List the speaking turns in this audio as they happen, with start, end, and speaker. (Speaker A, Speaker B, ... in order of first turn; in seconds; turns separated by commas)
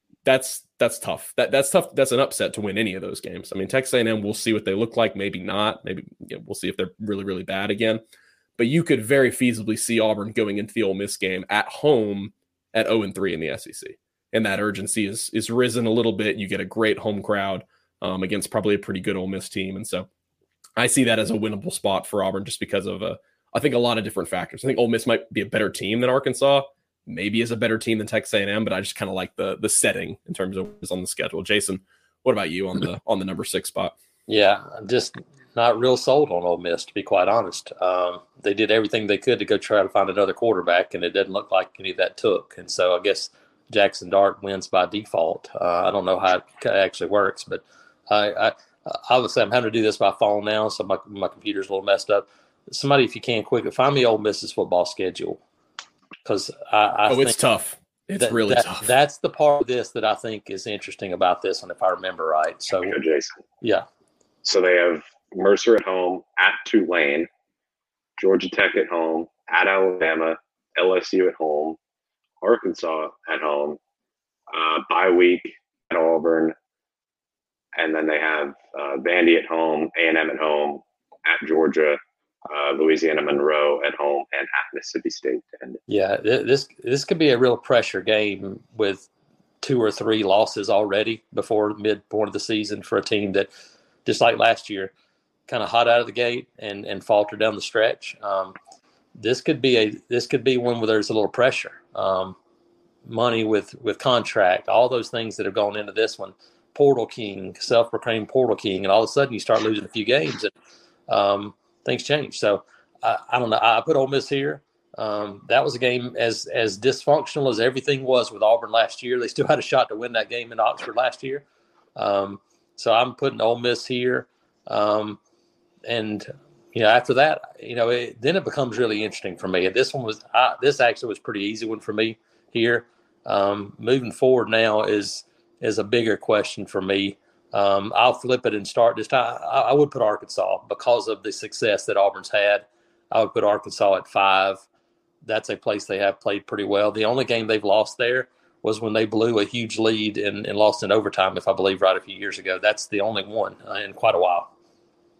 Speaker A: 0.2-8.0, Speaker A: 8.6-20.1, Speaker A: 20.8-33.9, Speaker B: 34.3-55.4, Speaker B: 56.2-57.4, Speaker A: 57.1-58.9, Speaker B: 58.2-63.0, Speaker C: 62.7-63.4, Speaker B: 63.6-63.9, Speaker C: 64.4-67.3, Speaker C: 68.2-71.8, Speaker C: 72.4-73.8, Speaker C: 74.5-76.5, Speaker C: 77.8-85.8, Speaker B: 85.9-89.1, Speaker B: 89.6-93.5, Speaker B: 94.0-94.9, Speaker B: 95.5-98.6, Speaker B: 99.2-102.4, Speaker B: 103.0-110.5, Speaker B: 111.1-121.4, Speaker B: 122.0-125.2, Speaker B: 125.8-144.6, Speaker B: 145.2-154.5